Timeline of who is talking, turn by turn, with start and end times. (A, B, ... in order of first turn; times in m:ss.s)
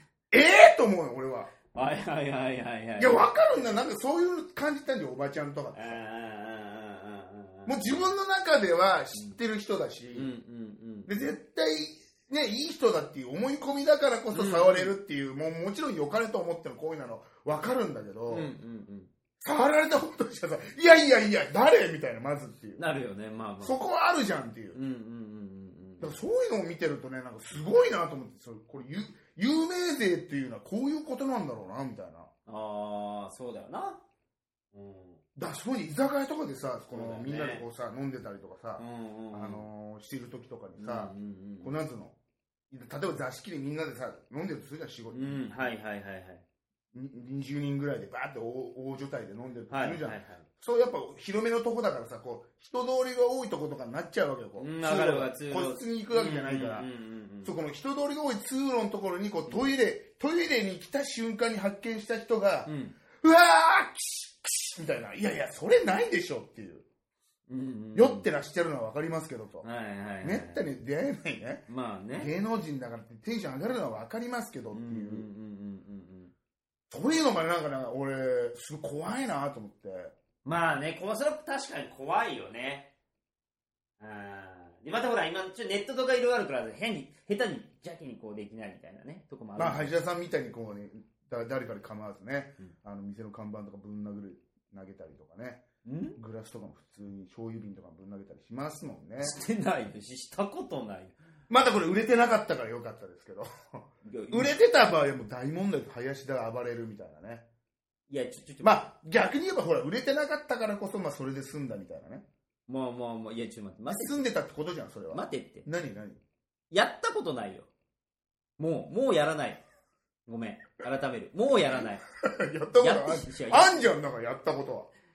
0:00.3-0:01.5 A
0:01.7-0:03.7 B
0:03.0-0:06.0 A
0:05.7-0:08.1 B
0:07.6-0:10.3 A
0:10.1-0:11.2 B
0:11.1-0:18.5 A
0:14.3-0:14.9 B
0:18.3-0:19.1 B
0:19.4-0:22.8 A
0:22.8-0:23.8 B
0:23.6-0:24.8 A
0:24.7-0:26.2 B
0:26.0-0:32.3 A
0:32.4-0:34.0 B
0:34.7-0:35.2 B
0:35.4-0:42.1 A
0:36.9-0:37.6 B
0:38.8-0:39.7 B
0:40.8-0:41.7 B
0:42.7-0:45.5 A
0:45.1-0:46.4 B
0:46.9-0:56.9 A
0:49.7-0:50.4 B
0:54.6-0:57.5 B
0:57.4-1:06.8 A
1:02.6-1:03.0 B
1:07.5-1:08.3 B
1:07.9-1:09.6 A
1:09.6-1:10.7 B
1:10.2-1:11.6 A
1:11.7-1:12.3 B
1:12.2-1:15.3 A
1:14.7-1:16.3 B
1:16.9-1:20.1 A
1:20.4-1:22.9 B
1:24.0-1:29.9 B
1:29.6-1:35.6 A
1:35.8-1:36.2 B
1:36.2-1:39.4 A
1:39.2-1:41.2 B
1:41.5-1:47.4 A
1:44.0-1:44.6 B
1:48.1-1:48.9 B
1:48.6-1:52.2 A
1:52.7-1:54.3 B
1:53.9-1:56.2 A
1:55.1-1:55.7 B
1:56.7-1:57.7 B
1:58.6-1:59.6 B
2:00.3-2:02.0 B
2:01.7-2:04.9 A
2:02.7-2:04.0 B